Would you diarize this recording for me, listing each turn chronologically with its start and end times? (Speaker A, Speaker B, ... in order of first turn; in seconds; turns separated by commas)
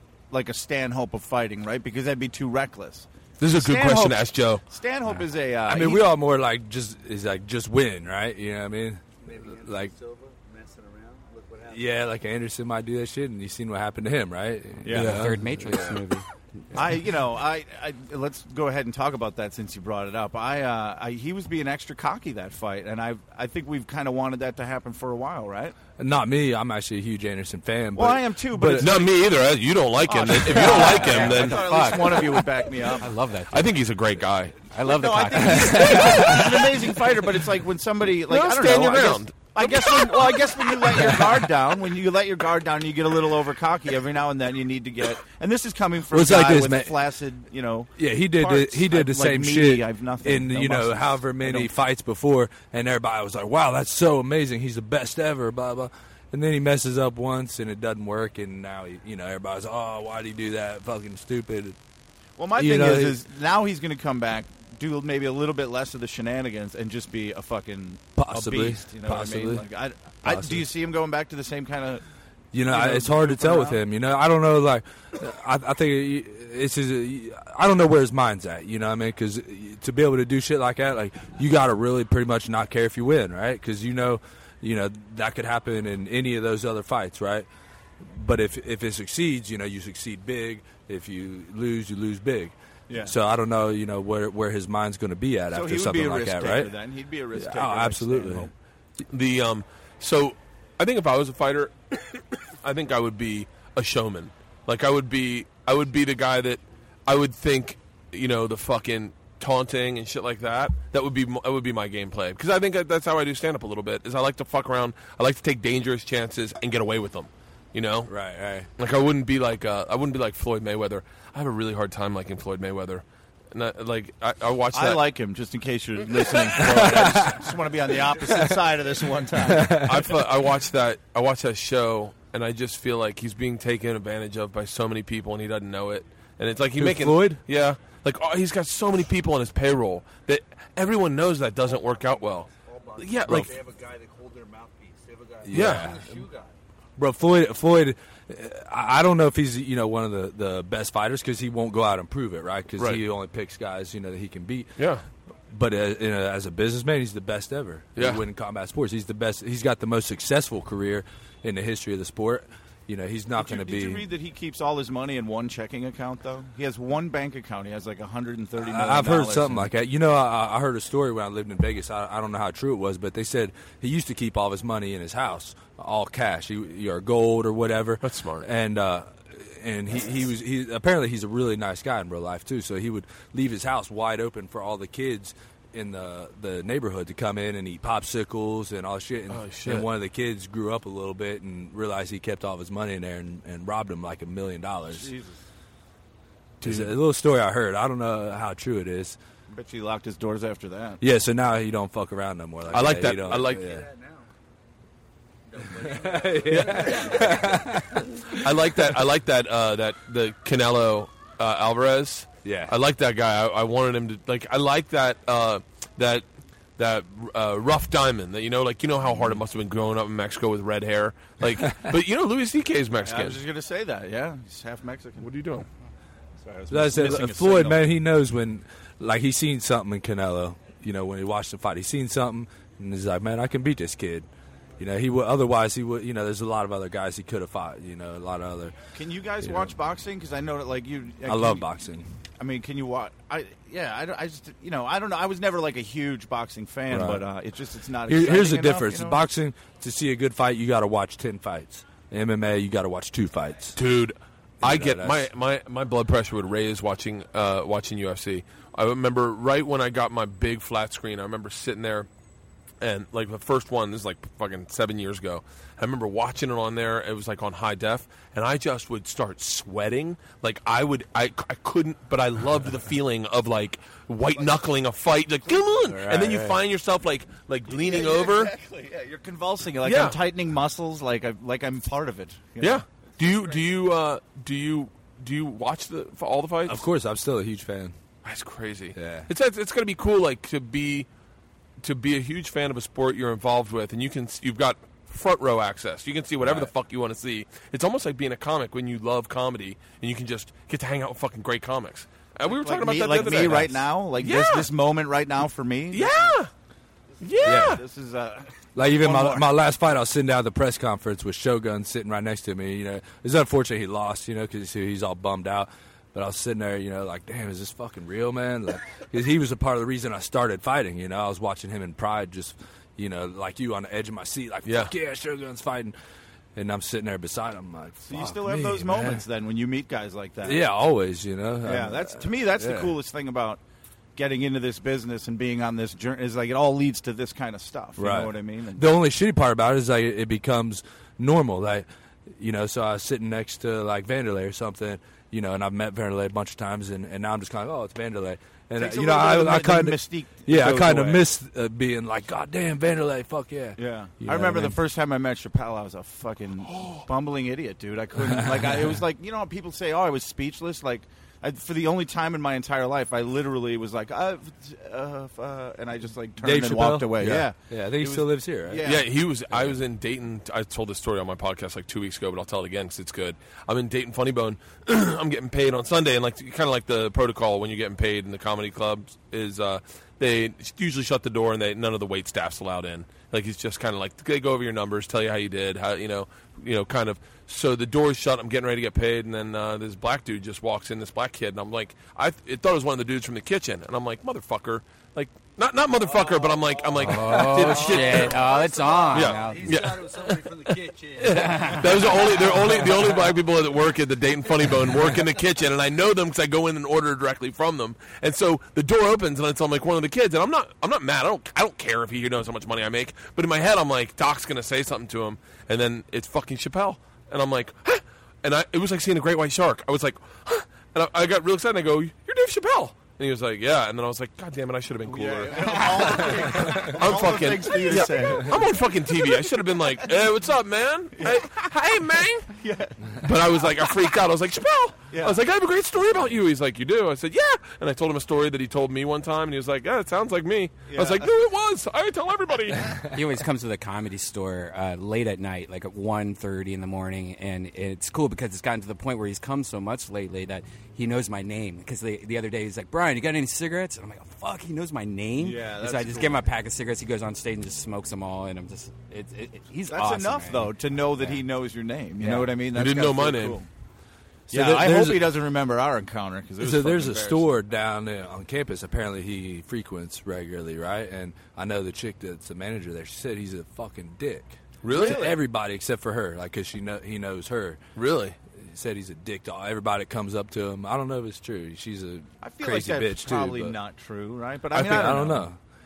Speaker A: 0.3-4.2, Speaker B: 3.4-4.6, Speaker A: 4.7-6.1, Speaker C: 5.7-9.9, Speaker D: 9.2-12.0, Speaker C: 11.7-16.0, Speaker A: 14.8-15.2, Speaker B: 14.9-15.2, Speaker E: 15.0-16.2, Speaker A: 16.7-25.8, Speaker C: 25.9-28.9, Speaker A: 27.9-29.1, Speaker B: 28.8-31.7, Speaker A: 30.0-33.1, Speaker E: 30.5-33.7, Speaker B: 33.5-34.6, Speaker E: 34.7-36.4, Speaker A: 34.8-51.7, Speaker C: 35.6-36.2, Speaker B: 35.8-36.9, Speaker B: 38.1-41.2, Speaker C: 46.1-46.9, Speaker C: 48.0-61.8, Speaker A: 62.4-72.0, Speaker C: 62.5-63.2, Speaker C: 68.1-69.6, Speaker C: 70.2-70.7, Speaker C: 72.5-87.5, Speaker A: 72.7-73.8, Speaker C: 88.0-96.7, Speaker A: 92.9-93.2, Speaker A: 95.5-98.5, Speaker C: 97.3-98.5, Speaker B: 99.1-118.1, Speaker C: 118.1-118.7, Speaker B: 118.8-125.0, Speaker A: 124.7-130.1, Speaker B: 126.2-127.2, Speaker C: 126.5-127.4, Speaker C: 128.2-128.6, Speaker C: 129.4-130.1, Speaker B: 129.8-143.6, Speaker C: 136.8-137.4, Speaker D: 141.6-146.5, Speaker C: 143.2-143.5, Speaker C: 145.4-146.2, Speaker B: 145.5-145.9, Speaker C: 147.0-154.7, Speaker B: 154.8-155.0, Speaker C: 155.5-164.1, Speaker B: 158.0-158.2, Speaker A: 163.3-169.7, Speaker C: 168.6-195.1, Speaker B: 178.0-178.5, Speaker B: 189.3-189.8, Speaker A: 194.9-195.4, Speaker C: 196.6-199.2, Speaker B: 196.6-196.9, Speaker A: 199.5-201.0, Speaker C: 201.0-203.9, Speaker B: 202.7-203.7, Speaker D: 203.2-204.3, Speaker D: 205.5-208.1, Speaker C: 205.8-208.9, Speaker B: 206.4-207.4, Speaker B: 208.3-216.2, Speaker C: 212.4-212.7, Speaker B: 216.8-223.4, Speaker A: 223.0-225.3, Speaker B: 225.2-225.7, Speaker A: 226.4-227.9, Speaker C: 226.7-234.3, Speaker C: 234.8-238.8, Speaker A: 238.9-241.7, Speaker C: 239.4-239.7, Speaker C: 241.2-242.1, Speaker A: 242.4-249.2, Speaker C: 246.9-247.2, Speaker C: 248.1-253.8, Speaker B: 253.8-262.1, Speaker C: 254.6-255.3, Speaker B: 262.8-278.5, Speaker C: 275.8-276.6, Speaker A: 277.7-282.8, Speaker B: 279.8-280.2, Speaker B: 282.6-286.8, Speaker C: 286.6-287.9, Speaker B: 288.2-291.1, Speaker C: 288.9-289.3, Speaker B: 291.8-304.7, Speaker C: 296.4-296.7, Speaker A: 302.5-306.4, Speaker B: 305.9-306.5, Speaker B: 307.2-307.8, Speaker A: 307.4-309.5, Speaker C: 307.4-307.8, Speaker C: 308.7-325.9, Speaker B: 324.6-324.9, Speaker C: 326.5-329.2, Speaker A: 328.1-330.6, Speaker C: 330.4-332.9, Speaker A: 331.6-333.6, Speaker A: 334.1-338.9, Speaker C: 338.0-354.8, Speaker A: 348.8-351.2, Speaker A: 353.8-369.1, Speaker B: 356.8-357.0, Speaker C: 358.2-358.9, Speaker C: 366.4-368.8, Speaker B: 368.8-398.5, Speaker D: 396.0-403.4, Speaker E: 397.0-399.8, Speaker B: 399.1-432.5, Speaker E: 401.3-402.9, Speaker A: 425.1-430.1, Speaker A: 431.2-431.6, Speaker A: 432.5-433.2, Speaker B: 433.2-442.9, Speaker A: 435.1-435.4, Speaker A: 440.9-441.3, Speaker E: 443.1-461.4, Speaker A: 455.4-456.4, Speaker A: 459.9-463.7, Speaker E: 462.2-462.5, Speaker B: 462.7-463.6, Speaker C: 464.5-465.3, Speaker A: 464.5-467.5, Speaker C: 466.6-477.8, Speaker B: 474.8-475.2, Speaker A: 474.9-475.4, Speaker B: 477.9-478.4, Speaker C: 478.6-483.8, Speaker A: 482.4-485.5, Speaker C: 484.7-485.6